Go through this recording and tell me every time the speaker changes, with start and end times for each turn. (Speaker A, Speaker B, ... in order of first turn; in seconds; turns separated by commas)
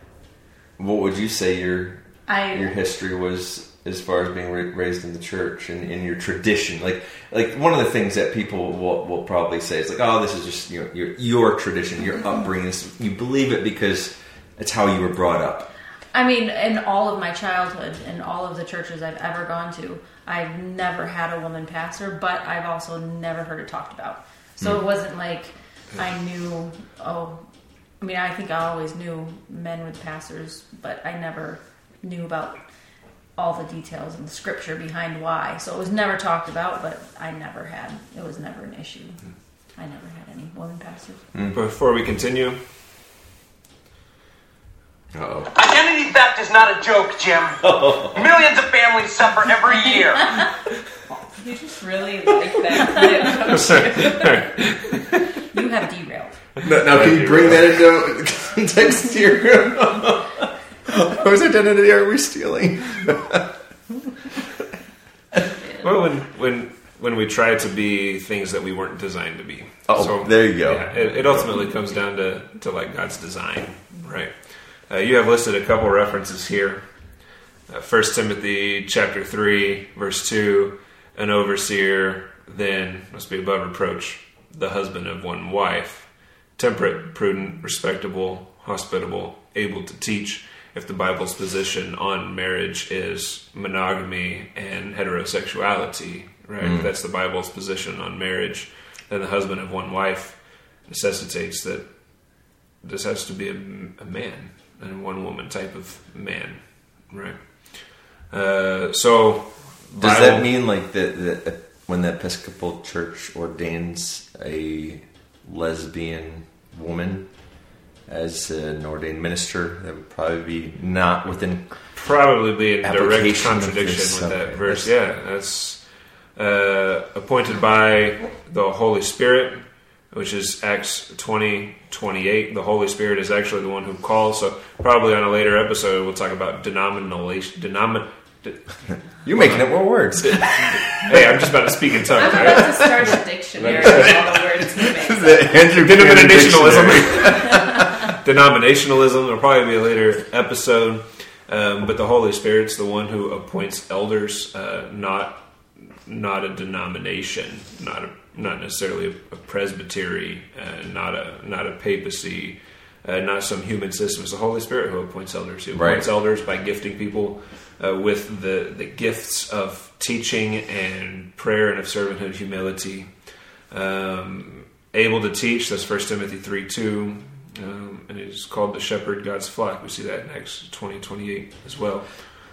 Speaker A: 0.8-15.7, Speaker B: 2.2-2.7, Speaker B: 16.1-41.3, Speaker A: 24.6-24.8, Speaker A: 41.3-41.6, Speaker C: 41.5-42.6, Speaker A: 45.1-45.5, Speaker D: 45.5-50.3, Speaker A: 47.6-48.2, Speaker E: 51.4-54.2, Speaker B: 52.8-53.3, Speaker C: 53.4-55.1, Speaker B: 55.4-56.6, Speaker A: 56.6-63.5, Speaker C: 56.7-57.8, Speaker C: 65.8-110.5, Speaker A: 69.9-71.6, Speaker A: 96.6-96.9, Speaker A: 110.0-122.0, Speaker C: 121.9-142.9, Speaker A: 122.8-124.9, Speaker A: 139.2-141.3, Speaker E: 142.1-145.7, Speaker A: 142.2-142.6, Speaker C: 143.5-144.3, Speaker A: 143.7-144.4, Speaker A: 145.0-148.1, Speaker C: 145.8-182.2, Speaker A: 165.7-166.1